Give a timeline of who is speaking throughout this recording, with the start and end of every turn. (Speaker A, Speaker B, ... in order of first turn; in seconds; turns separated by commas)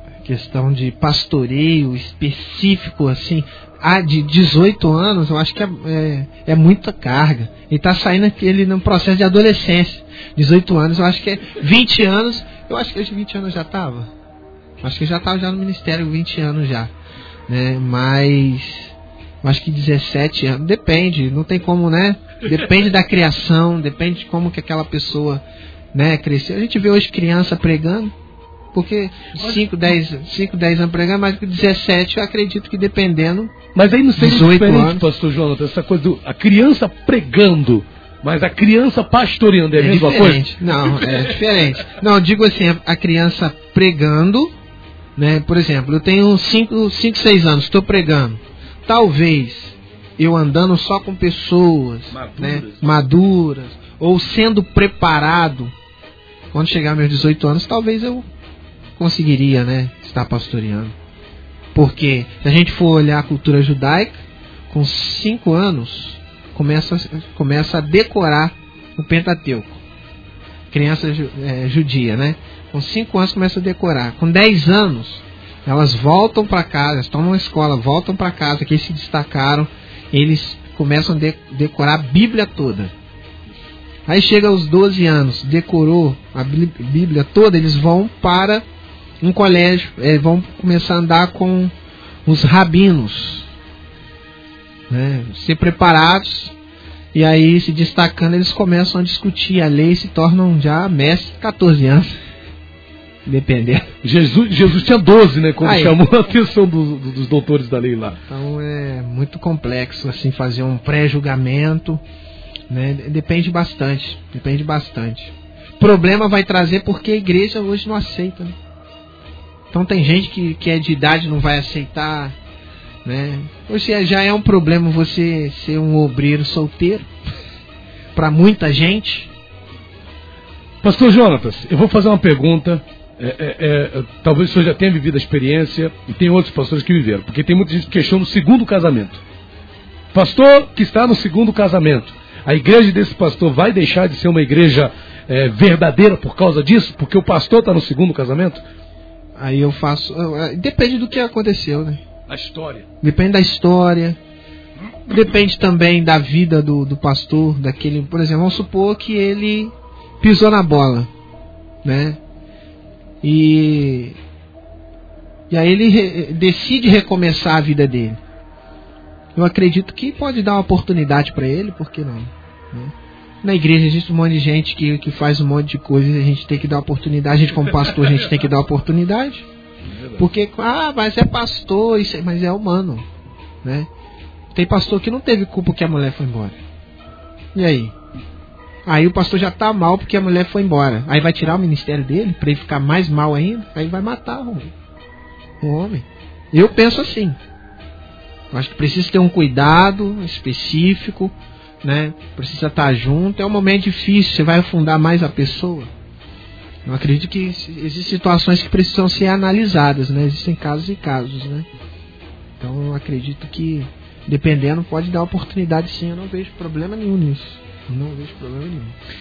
Speaker A: 0.2-14.1, Speaker A: 14.8-16.9, Speaker A: 17.5-18.9, Speaker A: 19.4-25.4, Speaker A: 25.9-28.1, Speaker A: 28.7-33.5, Speaker B: 33.8-41.4, Speaker A: 34.2-35.0, Speaker A: 39.8-44.5, Speaker A: 45.2-55.7, Speaker B: 52.1-53.0, Speaker A: 56.5-58.3, Speaker A: 59.0-60.9, Speaker A: 61.8-69.8, Speaker A: 70.7-82.9, Speaker A: 84.1-88.6, Speaker A: 89.2-91.7, Speaker A: 92.3-93.5, Speaker A: 94.9-96.5, Speaker A: 97.1-102.2, Speaker A: 103.3-103.9, Speaker B: 104.0-108.2, Speaker A: 105.6-106.0, Speaker A: 108.3-112.0, Speaker A: 112.7-118.5, Speaker A: 119.7-122.3, Speaker A: 123.0-127.1, Speaker A: 128.2-129.3, Speaker B: 130.8-139.2, Speaker B: 140.1-148.6, Speaker A: 149.4-152.0, Speaker B: 152.3-152.9, Speaker A: 153.0-154.2, Speaker A: 155.1-161.1, Speaker A: 161.8-162.2, Speaker A: 163.2-164.2, Speaker A: 165.5-168.2, Speaker A: 169.3-179.5, Speaker A: 180.2-183.1, Speaker A: 184.5-186.6, Speaker A: 187.6-187.9, Speaker A: 188.9-194.7, Speaker A: 195.6-197.4, Speaker A: 198.5-205.9, Speaker A: 206.9-211.7, Speaker A: 212.6-218.9